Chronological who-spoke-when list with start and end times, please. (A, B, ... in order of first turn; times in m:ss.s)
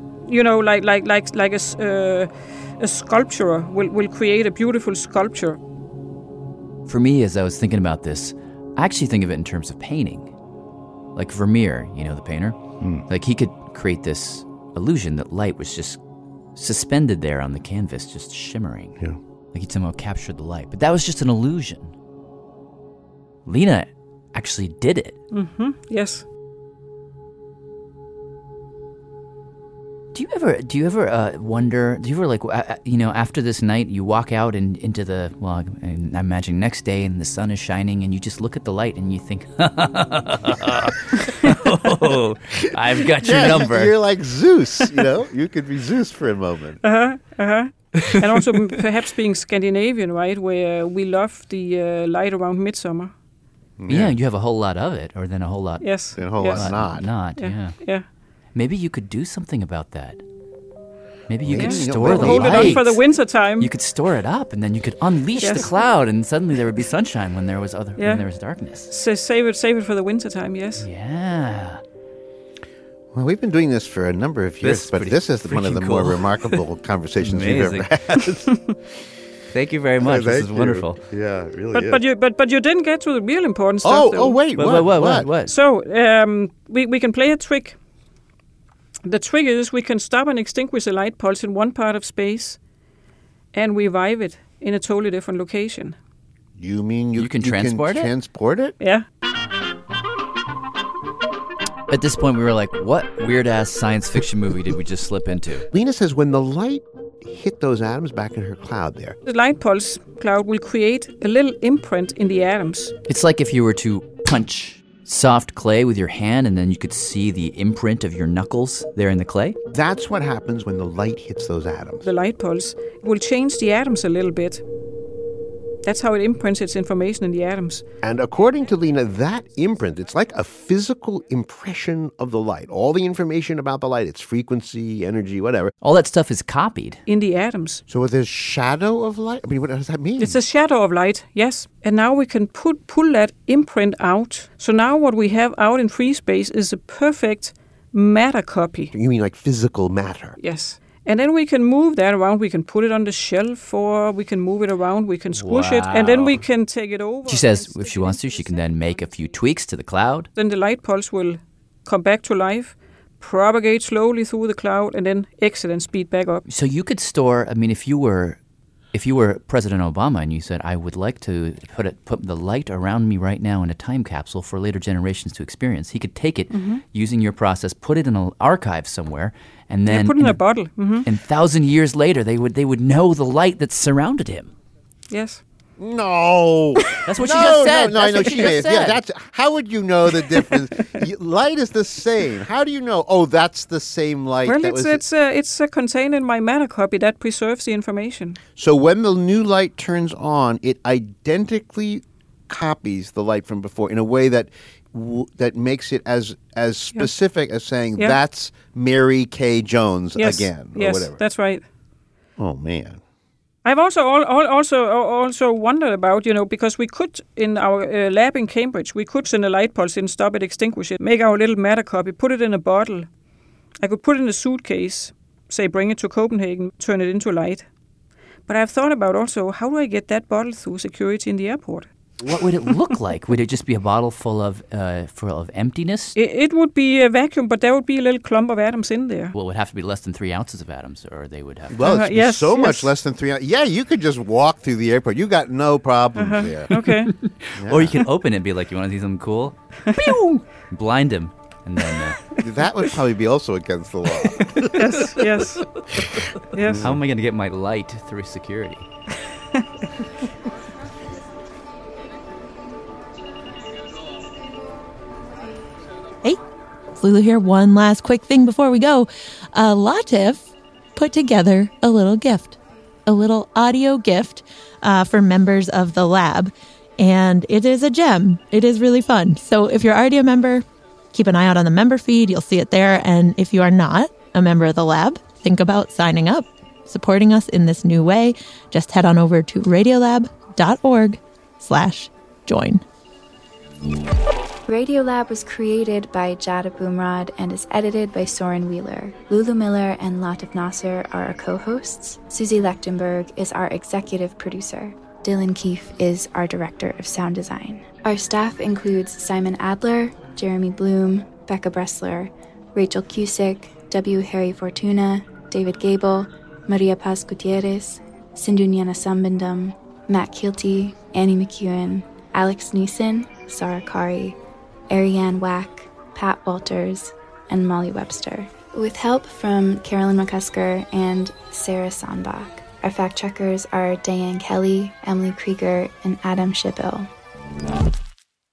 0:00.2-0:05.6 A
0:06.9-0:10.3 B
0:11.1-0:16.0 B
0:16.6-0:19.0 B
0:19.5-0:21.9 B
0:23.4-0:25.2 B
0:25.3-0:26.2 A
0:30.1-0:43.9 B
0:43.2-0:46.8 C
0:46.8-0:53.1 A
0:53.8-0:54.2 C
0:53.9-0:57.8 B
0:55.8-0:58.0 A
0:56.2-0:57.1 C
0:58.5-1:00.2 B
1:01.3-1:03.0 B
1:01.4-1:02.9 C
1:01.6-1:03.7 A
1:03.6-1:08.9 B
1:05.4-1:05.8 A
1:08.0-1:08.2 A
1:08.8-1:10.8 A
1:10.8-1:11.8 B
1:13.1-1:18.5 C
1:14.6-1:16.6 B
1:17.2-1:17.9 B
1:19.5-1:21.0 B
1:20.0-1:22.0 C
1:21.7-1:24.5 A
1:23.8-1:25.3 C
1:24.5-1:25.5 B
1:25.4-1:27.8 A
1:29.0-1:32.6 A
1:33.5-1:36.0 A
1:36.6-1:38.7 C
1:37.2-1:38.1 B
1:41.9-1:45.6 B
1:45.7-1:49.2 C
1:49.2-1:52.9 A
1:53.1-1:59.6 B
1:59.7-2:02.0 C
2:02.0-2:04.6 A
2:05.8-2:07.8 A
2:08.0-2:15.7 C
2:15.8-2:17.0 B
2:17.1-2:17.8 A
2:17.9-2:20.4 C
2:20.2-2:28.9 A
2:28.9-2:30.3 C
2:30.4-2:39.3 A
2:35.3-2:36.5 B
2:37.2-2:40.3 B
2:40.3-2:46.4 A
2:46.4-2:48.4 B
2:48.9-3:00.4 B
2:56.5-2:56.8 A
2:59.9-3:01.1 A
3:01.0-3:04.5 B
3:05.1-3:05.4 A
3:05.8-3:15.0 C
3:07.0-3:09.0 B
3:14.4-3:18.4 A
3:18.6-3:31.2 C
3:30.2-3:31.6 A
3:32.4-3:33.0 C
3:33.6-3:43.1 A
3:43.8-3:47.6 A
3:48.5-3:51.9 A
3:52.2-3:56.1 B
3:56.2-3:59.3 A
3:59.3-4:01.8 B
4:01.7-4:06.7 C
4:01.8-4:02.9 A
4:06.2-4:07.1 A
4:07.6-4:12.2 B
4:07.6-4:08.0 C
4:09.9-4:10.2 A
4:12.4-4:14.7 C
4:14.8-4:15.6 A
4:16.5-4:16.9 A
4:16.7-4:17.0 C
4:16.8-4:18.8 B
4:27.0-4:52.8 D
4:54.7-5:24.4 E
5:24.9-5:37.1 E